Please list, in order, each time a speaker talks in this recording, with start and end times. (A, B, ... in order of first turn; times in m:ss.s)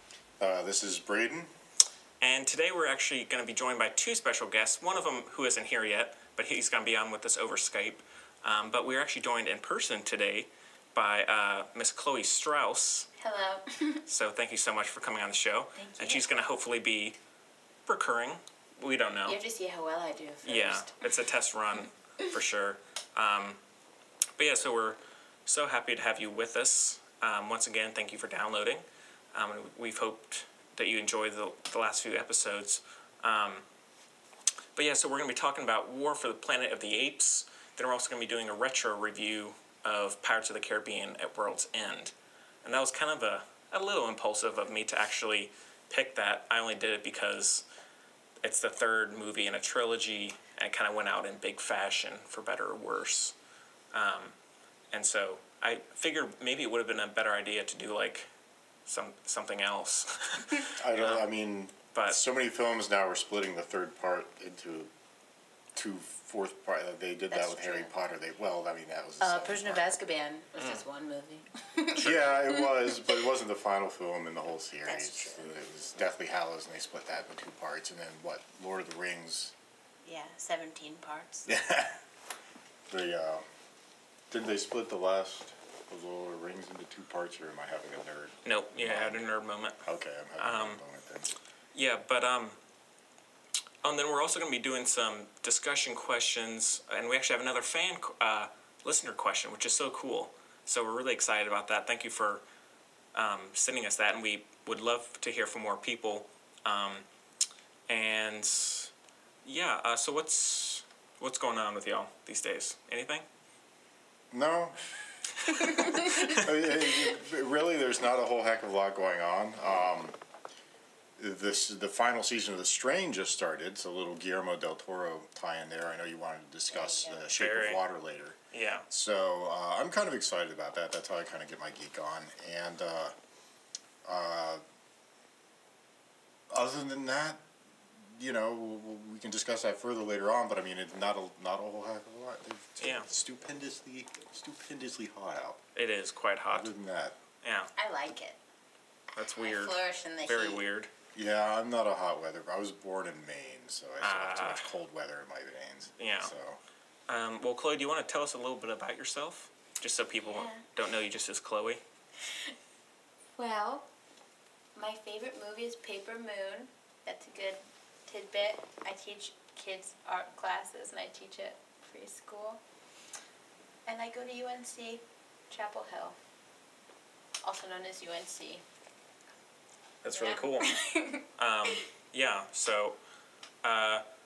0:00.4-0:01.5 A
0:02.2-0:13.1 B
0:13.2-0:14.0 C
0:14.1-0:17.2 B
0:15.8-0:16.3 C
0:17.9-0:19.4 B
0:19.3-0:21.1 C
0:20.4-0:23.6 B
0:24.4-0:33.6 B
0:34.8-0:47.6 B
0:48.4-0:53.4 B
0:53.9-0:54.4 B
0:54.9-0:58.3 B
0:58.9-1:01.3 B
1:00.8-1:04.9 A
1:01.9-1:02.2 B
1:05.7-1:09.9 A
1:07.3-1:07.9 C
1:09.2-1:13.2 C
1:10.6-1:10.8 B
1:11.9-1:12.3 B
1:12.0-1:19.6 A
1:14.8-1:15.5 C
1:20.0-1:21.5 C
1:21.5-1:22.0 A
1:22.9-1:23.4 A
1:24.3-1:29.2 A
1:28.4-1:29.8 B
1:29.8-1:31.3 A
1:30.4-1:30.8 B
1:31.7-1:32.6 B
1:33.8-1:42.4 B
1:43.1-1:47.0 B
1:47.9-1:48.9 B
1:49.4-1:53.2 B
1:54.3-1:54.8 A
1:55.5-1:56.5 B
1:56.3-2:00.2 A
2:01.2-2:08.4 A
2:06.7-2:07.3 C
2:07.3-2:07.8 B
2:08.5-2:08.9 B
2:08.9-2:13.2 A
2:14.0-2:14.6 A
2:16.5-2:17.4 A
2:18.0-2:25.6 A
2:22.8-2:23.1 B
2:25.8-2:26.7 B
2:26.5-2:27.2 A
2:27.4-2:27.7 B
2:27.8-2:28.4 C
2:29.2-2:30.9 B
2:29.4-2:30.6 C
2:31.2-2:36.6 A
2:34.0-2:34.7 B
2:36.0-2:36.3 B
2:37.1-2:41.8 B
2:40.2-2:40.6 C
2:43.4-2:43.9 C
2:44.8-2:52.6 C
2:53.9-2:56.2 C
2:57.4-2:58.6 C
3:00.0-3:00.7 B
3:00.1-3:01.8 C
3:01.4-3:03.0 B
3:03.6-3:04.0 B